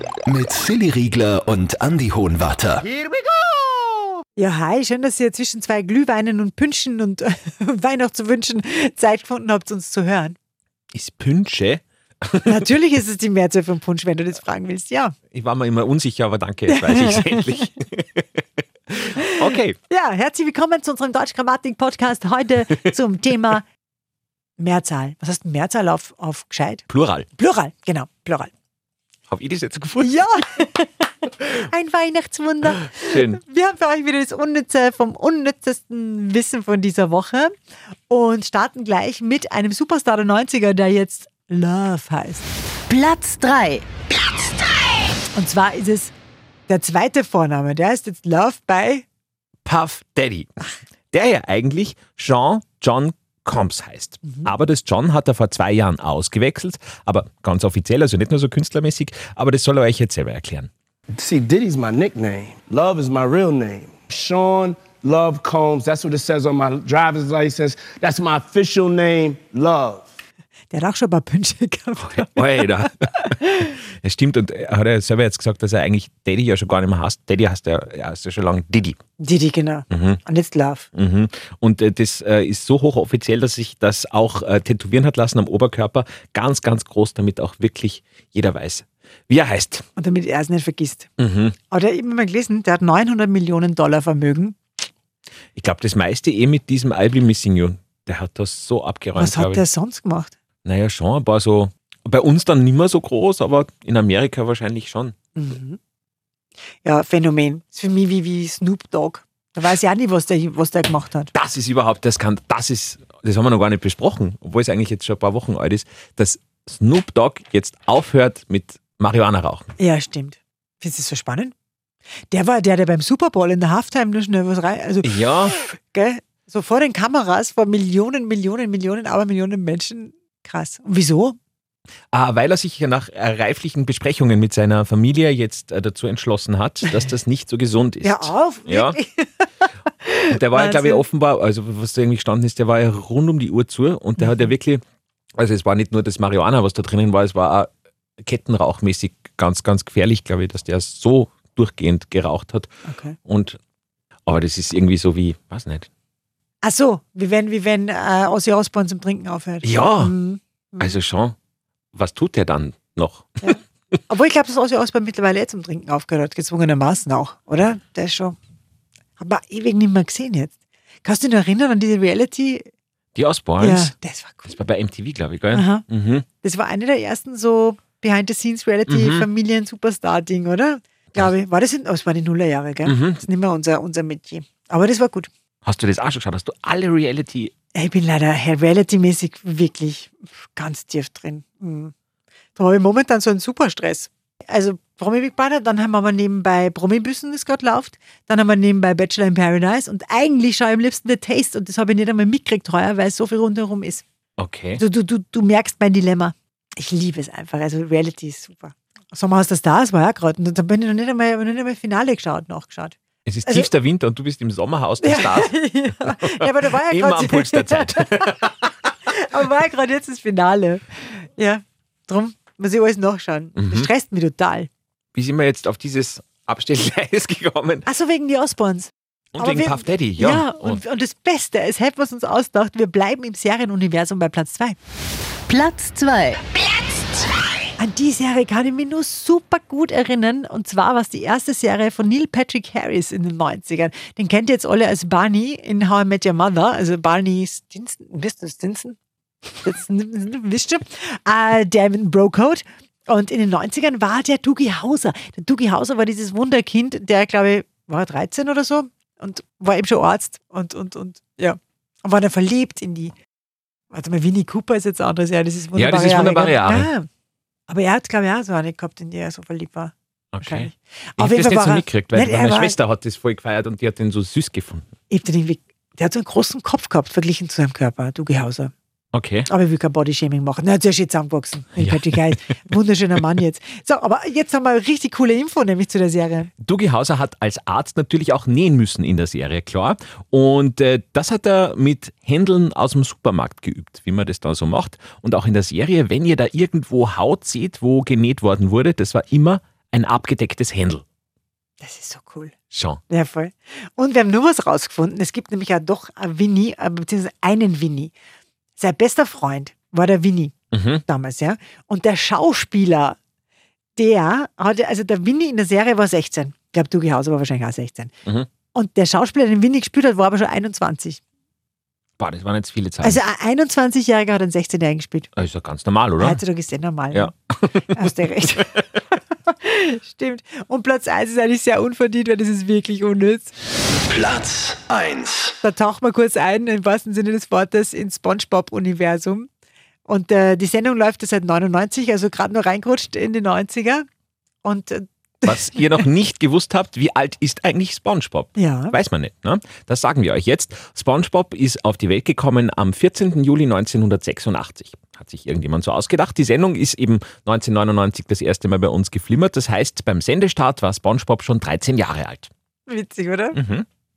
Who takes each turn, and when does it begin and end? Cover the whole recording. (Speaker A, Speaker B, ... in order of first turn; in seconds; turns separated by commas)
Speaker A: 0.3-2.9, Speaker B: 4.4-10.4, Speaker C: 10.9-12.4, Speaker B: 12.4-15.1, Speaker C: 15.3-16.6, Speaker B: 16.7-17.6, Speaker C: 17.1-18.2, Speaker B: 19.9-23.6, Speaker B: 24.6-26.8, Speaker C: 26.9-27.3, Speaker B: 27.4-28.5, Speaker C: 29.3-30.1, Speaker B: 30.0-37.5, Speaker B: 38.1-42.5, Speaker D: 42.9-43.9, Speaker B: 45.3-46.1, Speaker B: 46.7-49.0, Speaker C: 49.6-50.5, Speaker C: 51.1-60.7, Speaker E: 61.1-70.0, Speaker B: 70.7-72.8, Speaker C: 72.1-79.0, Speaker B: 79.2-80.9, Speaker C: 79.9-80.2, Speaker C: 80.9-89.8, Speaker B: 90.0-91.1, Speaker C: 91.2-91.5, Speaker B: 91.7-94.6, Speaker C: 95.5-99.5, Speaker B: 99.2-100.3, Speaker C: 100.6-105.1, Speaker B: 105.3-105.8, Speaker B: 106.8-111.3, Speaker C: 111.3-119.7, Speaker B: 119.8-121.5, Speaker B: 122.3-131.4, Speaker C: 125.0-125.5, Speaker C: 132.1-139.0, Speaker B: 138.0-139.4, Speaker B: 140.0-141.0, Speaker C: 140.3-144.8, Speaker B: 144.2-144.5, Speaker C: 145.4-152.7, Speaker B: 152.8-153.2, Speaker C: 153.2-153.6, Speaker C: 154.2-155.9, Speaker B: 156.6-160.9, Speaker C: 159.6-160.1, Speaker C: 160.8-161.3, Speaker C: 161.9-163.6, Speaker B: 163.4-168.4, Speaker B: 169.2-170.5, Speaker B: 171.0-172.7, Speaker C: 173.1-173.9, Speaker B: 173.6-174.6, Speaker C: 174.4-176.2, Speaker B: 175.5-175.8, Speaker B: 176.4-185.3, Speaker C: 178.9-179.3, Speaker C: 182.8-183.2, Speaker C: 185.6-187.5, Speaker B: 187.7-191.9, Speaker B: 192.6-204.0, Speaker C: 204.4-204.8, Speaker B: 204.8-212.9, Speaker C: 213.2-218.6, Speaker B: 215.0-218.5, Speaker B: 219.1-224.7, Speaker C: 223.6-223.9, Speaker C: 225.1-227.9, Speaker B: 227.8-234.8, Speaker C: 229.3-230.8, Speaker D: 235.5-236.5, Speaker B: 237.8-248.9, Speaker B: 249.6-263.1, Speaker B: 263.9-267.1, Speaker C: 265.7-266.9, Speaker B: 267.7-269.9, Speaker C: 270.3-274.9, Speaker B: 270.4-272.8, Speaker B: 275.1-278.7, Speaker C: 279.1-279.5, Speaker B: 279.5-286.5, Speaker C: 281.8-282.2, Speaker C: 286.6-301.0, Speaker B: 301.8-302.5, Speaker C: 302.7-303.0, Speaker B: 303.1-308.1, Speaker B: 308.8-310.5, Speaker C: 310.7-311.0, Speaker B: 311.1-313.2, Speaker B: 313.9-318.1, Speaker B: 318.7-321.2, Speaker C: 322.2-323.2, Speaker B: 323.0-325.3, Speaker C: 325.3-326.4, Speaker B: 326.2-327.3, Speaker C: 327.1-328.1, Speaker B: 327.9-328.8, Speaker B: 329.5-333.5, Speaker A: 334.1-335.5, Speaker B: 335.6-339.5, Speaker B: 340.1-344.0, Speaker B: 344.6-346.0, Speaker C: 345.4-362.5, Speaker B: 348.6-349.0, Speaker B: 362.9-363.6, Speaker C: 363.5-363.9